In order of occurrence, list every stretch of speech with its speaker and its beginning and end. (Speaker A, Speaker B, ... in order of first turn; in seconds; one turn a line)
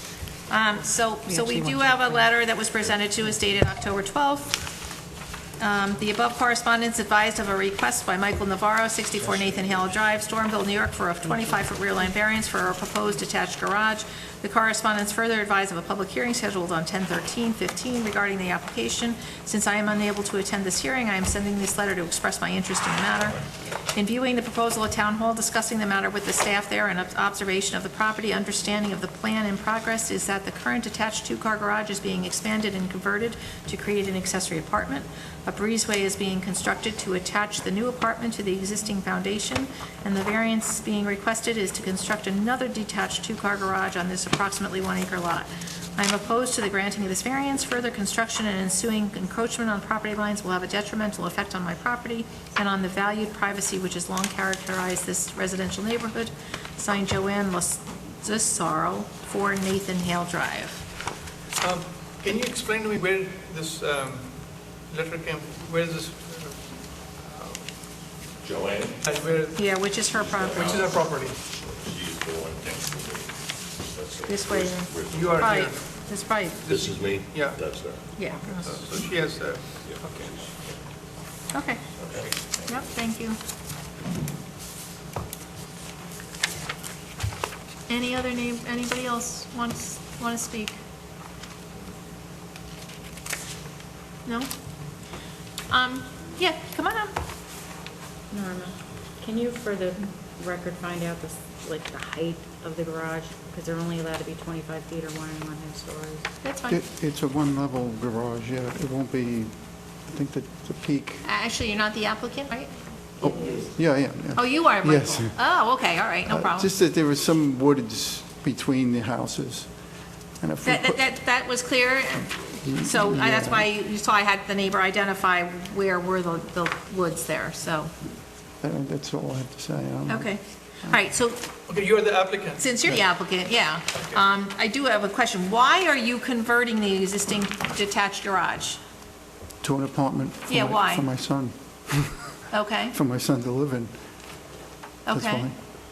Speaker A: 0.5-4.8
Speaker A: 5.6-60.8
Speaker B: 61.6-67.7
Speaker C: 68.4-69.0
Speaker B: 69.0-69.9
Speaker A: 69.5-70.9
Speaker C: 70.1-75.4
Speaker B: 70.5-71.3
Speaker A: 74.3-76.6
Speaker B: 75.1-75.8
Speaker B: 76.7-77.6
Speaker C: 76.7-78.1
Speaker A: 78.1-78.5
Speaker B: 78.2-80.5
Speaker C: 79.8-80.5
Speaker A: 81.5-81.8
Speaker C: 82.0-82.8
Speaker A: 82.6-83.4
Speaker A: 87.9-90.8
Speaker A: 94.2-94.5
Speaker A: 95.7-97.1
Speaker D: 98.3-106.3
Speaker A: 106.4-106.8
Speaker E: 106.7-111.2
Speaker A: 111.2-113.5
Speaker E: 113.2-115.4
Speaker A: 114.3-116.7
Speaker E: 116.2-119.8
Speaker E: 120.4-121.0
Speaker A: 120.6-127.9
Speaker E: 122.6-123.7
Speaker E: 128.6-130.3
Speaker A: 130.1-131.5
Speaker B: 131.7-132.6
Speaker A: 132.6-138.8
Speaker E: 139.6-142.4
Speaker A: 140.5-141.1
Speaker A: 142.5-142.9
Speaker E: 142.9-143.9
Speaker A: 145.1-145.5
Speaker E: 145.1-145.6